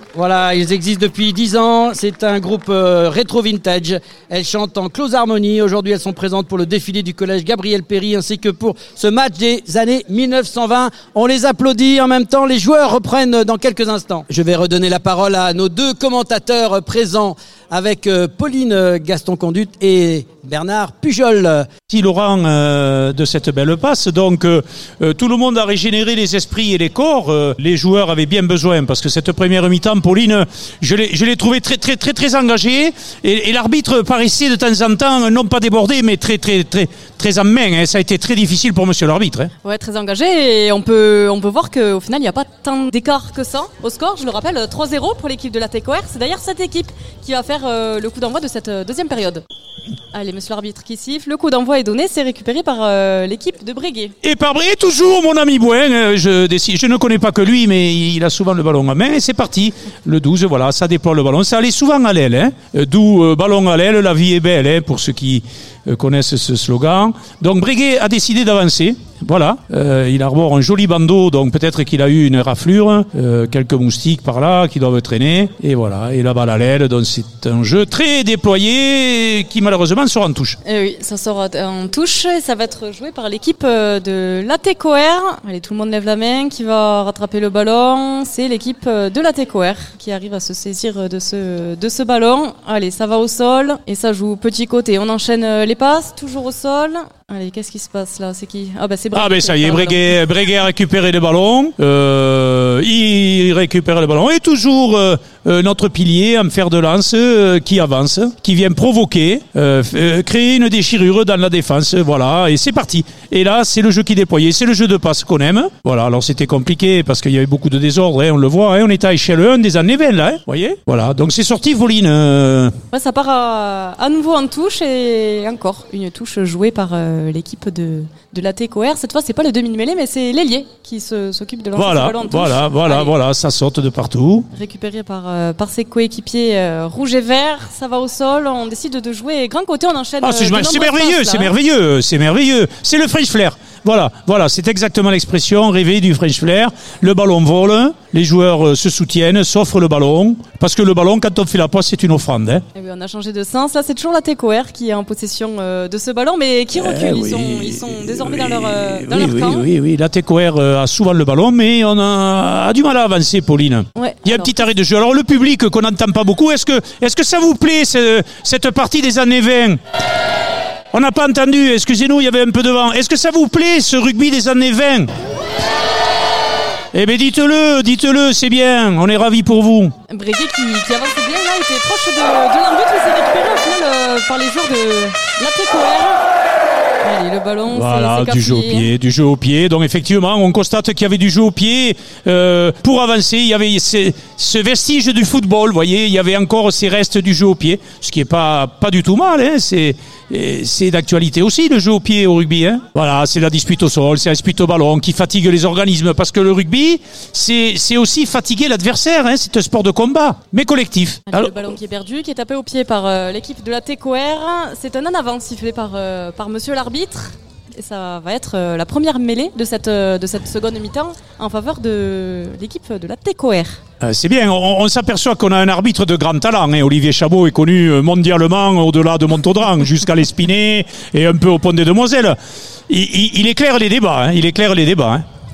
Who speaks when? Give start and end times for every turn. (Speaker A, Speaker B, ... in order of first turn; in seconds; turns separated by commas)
Speaker A: 0.1-21.7, Speaker B: 21.9-39.5, Speaker C: 39.6-49.4, Speaker C: 50.1-54.1, Speaker B: 54.2-80.6, Speaker C: 80.6-100.1, Speaker B: 99.1-122.7, Speaker C: 122.9-133.1, Speaker B: 131.8-134.5, Speaker C: 134.5-141.5, Speaker B: 140.2-152.6, Speaker C: 152.7-159.7, Speaker B: 156.7-169.8, Speaker C: 163.9-164.5, Speaker B: 170.9-175.1, Speaker B: 176.9-179.9, Speaker C: 180.1-186.2, Speaker C: 187.0-188.9, Speaker B: 187.7-211.5, Speaker C: 211.3-223.8, Speaker B: 224.0-232.4, Speaker B: 232.9-235.2